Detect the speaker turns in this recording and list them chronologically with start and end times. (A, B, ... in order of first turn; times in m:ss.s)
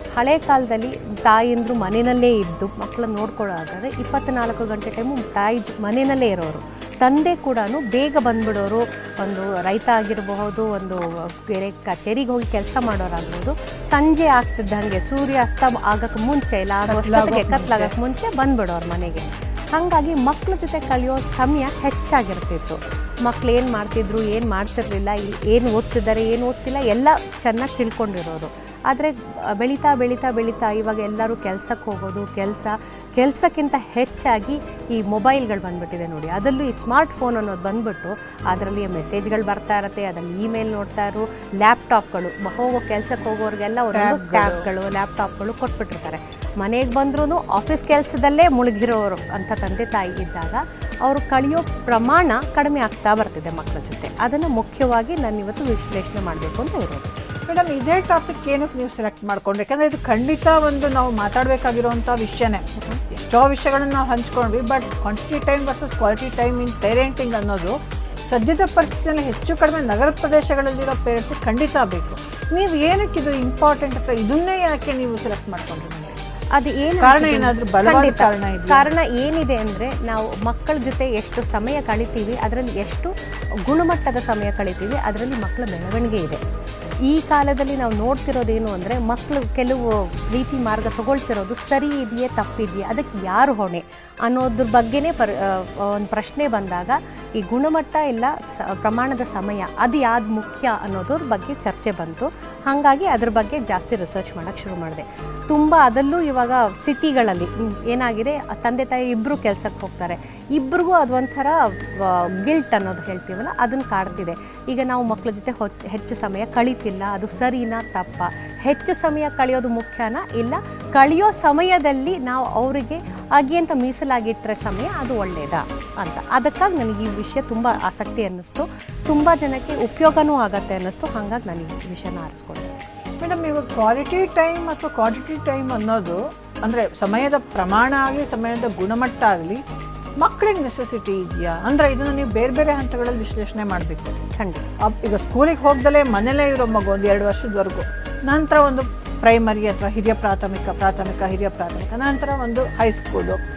0:00.2-0:57.1 A
0:16.9-0:17.9 B
0:43.9-0:44.7 B
0:57.5-1:07.8 B
1:08.3-1:16.2 B
1:16.5-1:23.1 A
1:17.0-1:18.9 B
1:23.6-1:26.4 A
1:27.0-2:12.7 A
2:13.2-2:19.6 B
2:20.2-2:24.2 B
2:24.3-2:24.6 A
2:24.8-2:33.4 B